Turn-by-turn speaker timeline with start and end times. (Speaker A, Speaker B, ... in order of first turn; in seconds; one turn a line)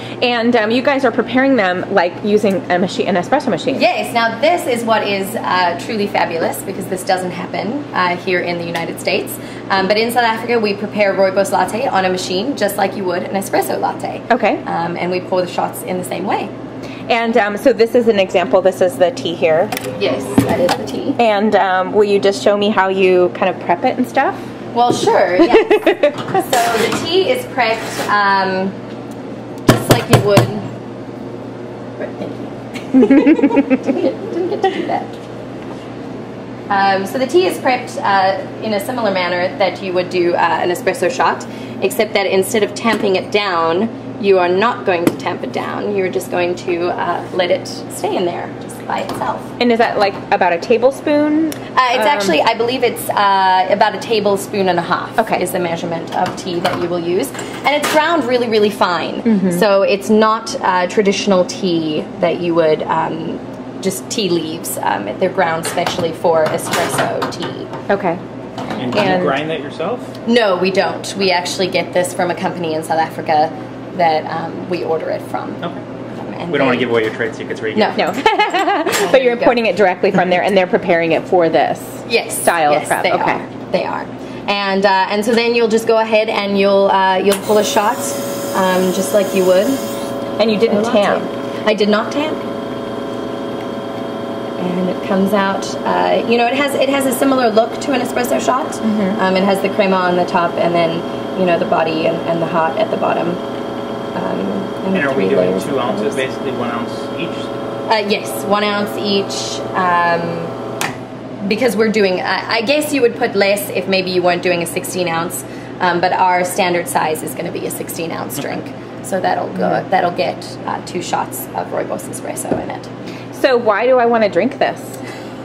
Speaker A: 0.2-3.8
Speaker B: 3.7-16.5
Speaker A: 14.3-14.6
Speaker A: 17.1-19.8
Speaker B: 19.9-21.2
Speaker A: 21.2-24.4
Speaker B: 24.7-28.8
Speaker A: 25.5-26.1
Speaker B: 29.7-30.6
Speaker B: 32.0-35.1
Speaker A: 33.3-33.8
Speaker B: 36.7-49.5
Speaker A: 49.6-52.3
Speaker B: 51.7-67.7
Speaker A: 59.3-59.6
Speaker A: 67.9-68.2
Speaker C: 68.8-70.1
Speaker A: 68.9-69.4
Speaker B: 70.2-76.9
Speaker C: 76.5-78.0
Speaker B: 77.8-79.6
Speaker A: 78.0-83.4
Speaker B: 82.1-89.9
Speaker A: 90.4-91.3
Speaker B: 90.7-92.5
Speaker B: 94.6-103.4
Speaker A: 98.8-99.2
Speaker B: 104.2-106.2
Speaker C: 104.9-107.5
Speaker B: 107.9-110.5
Speaker B: 111.4-122.9
Speaker A: 119.6-119.8
Speaker A: 123.3-125.0